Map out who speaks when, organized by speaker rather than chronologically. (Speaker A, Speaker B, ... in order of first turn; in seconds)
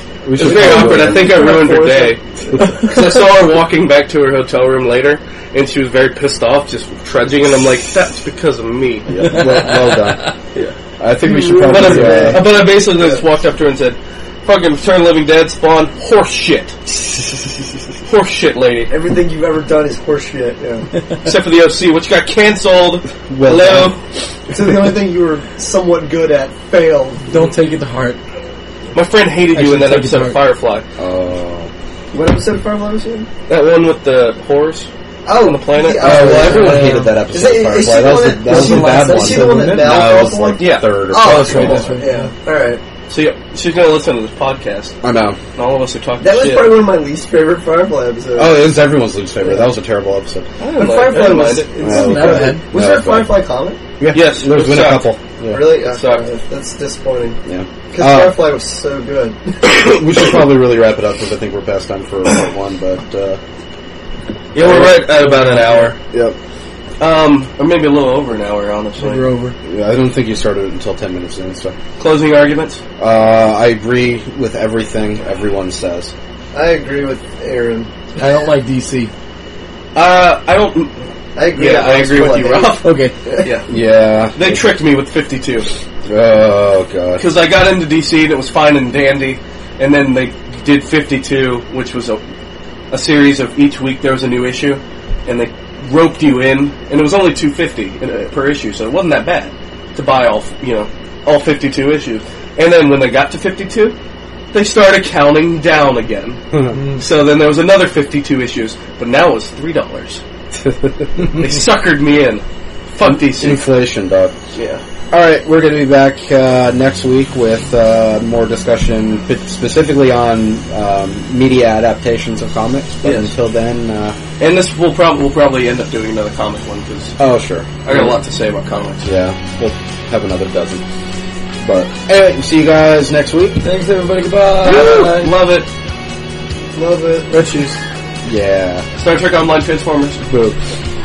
Speaker A: 0.2-1.4, 9.1-10.3, 11.0-12.4, 23.3-23.9, 31.0-31.7, 36.0-41.9, 45.0-45.4, 48.4-50.5, 51.8-53.4, 54.0-55.7, 57.5-58.4, 59.6-63.4, 64.6-64.9, 69.7-71.8, 73.0-76.1, 83.7-84.6, 86.1-87.2, 110.6-111.0, 113.0-114.3, 115.1-124.2, 127.2-128.1, 129.0-130.8, 131.6-133.6, 138.2-138.9, 140.3-140.6
Speaker B: 0.4-2.2, 2.8-9.1, 11.7-16.8, 18.1-18.9, 21.2-24.0, 28.9-30.8, 33.5-36.7, 40.6-41.8, 43.1-45.0, 45.6-46.8, 50.6-51.7, 54.1-55.1, 55.9-56.3, 64.5-66.0, 67.0-69.2, 72.0-72.8, 80.0-80.9, 81.5-83.7, 84.3-85.7, 87.2-92.2, 92.9-104.0, 104.5-106.4, 107.0-110.2, 111.2-113.7, 114.5-114.8, 123.0-123.3, 124.4-127.1, 127.8-129.1, 134.6-135.7, 139.0-140.2
Speaker C: 0.4-3.0, 11.2-13.2, 18.9-20.9, 24.5-27.3, 32.1-33.3, 35.3-42.8, 46.2-48.8, 50.7-53.8, 55.5-57.4, 57.9-59.9, 76.5-77.9, 81.4-83.5, 136.8-137.4
Speaker D: 9.2-10.3, 27.3-28.2, 29.5-30.4, 36.0-37.2, 38.4-40.3, 41.1-42.3, 51.9-52.6, 64.7-65.9, 69.0-69.6, 78.2-79.1, 82.8-83.2, 106.7-107.0, 133.6-135.3, 137.3-137.8